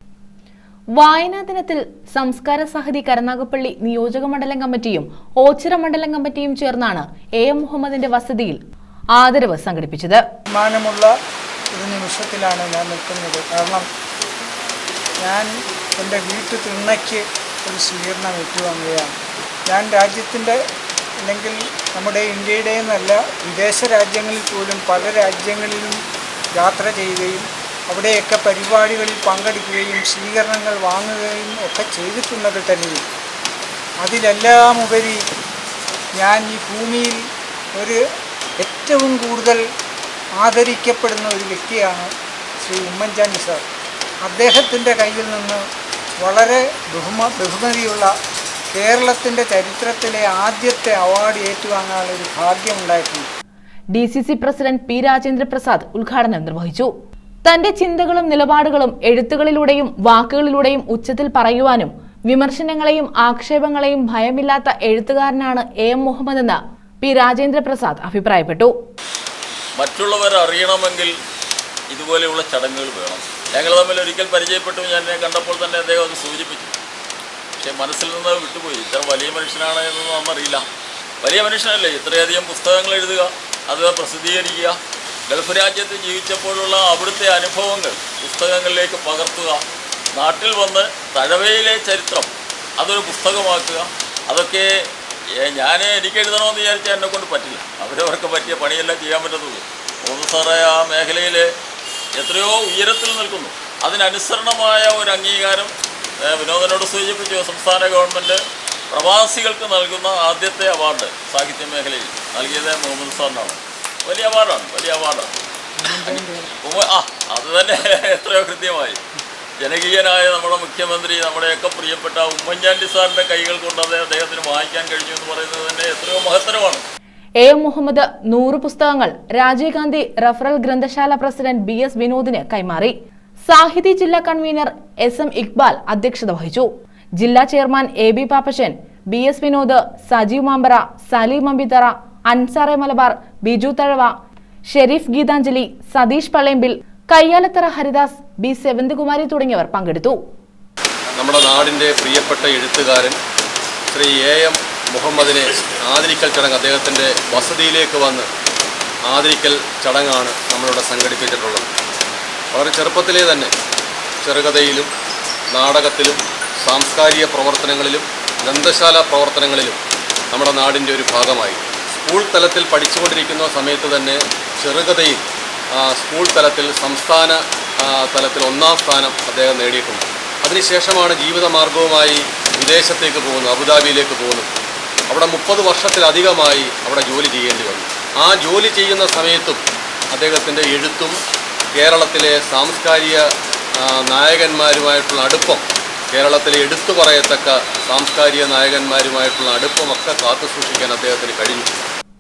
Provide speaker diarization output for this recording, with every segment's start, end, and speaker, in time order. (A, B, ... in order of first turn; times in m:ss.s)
0:01.0-0:08.6 A
0:09.2-0:10.2 A
0:10.5-0:11.1 B
0:11.7-0:13.8 B
0:15.2-0:19.1 B
0:19.7-0:20.6 B
0:21.2-0:26.0 B
0:26.6-0:33.0 B
0:34.0-0:35.2 B
0:36.2-0:37.2 B
0:38.6-0:39.6 B
0:40.4-0:42.1 B
0:42.6-0:43.6 B
0:44.2-0:45.6 B
0:46.2-0:48.1 B
0:48.7-0:53.3 B
0:53.9-0:56.9 A
0:57.4-1:08.7 A
1:09.8-1:11.1 C
1:11.9-1:16.8 C
1:17.6-1:20.6 C
1:21.2-1:24.8 C
1:25.3-1:29.6 C
1:30.2-1:34.7 C
1:35.4-1:41.5 C
1:42.2-1:45.7 C
1:46.2-1:48.4 C
1:48.9-1:55.3 C
1:55.8-1:56.5 B
1:56.0-1:59.0 C
1:59.6-2:06.8 C
2:07.4-2:12.9 A
2:13.5-2:24.1 A
2:24.7-2:30.2 A
2:31.2-2:33.2 D
2:33.9-2:38.3 D
2:39.1-2:41.7 D
2:42.5-2:43.5 D
2:44.2-2:44.9 D
2:45.5-2:49.8 D
2:50.3-2:55.2 D
2:55.8-3:04.5 D
3:05.1-3:09.6 D
3:10.1-3:11.1 D
3:11.8-3:13.2 D
3:13.8-3:21.8 D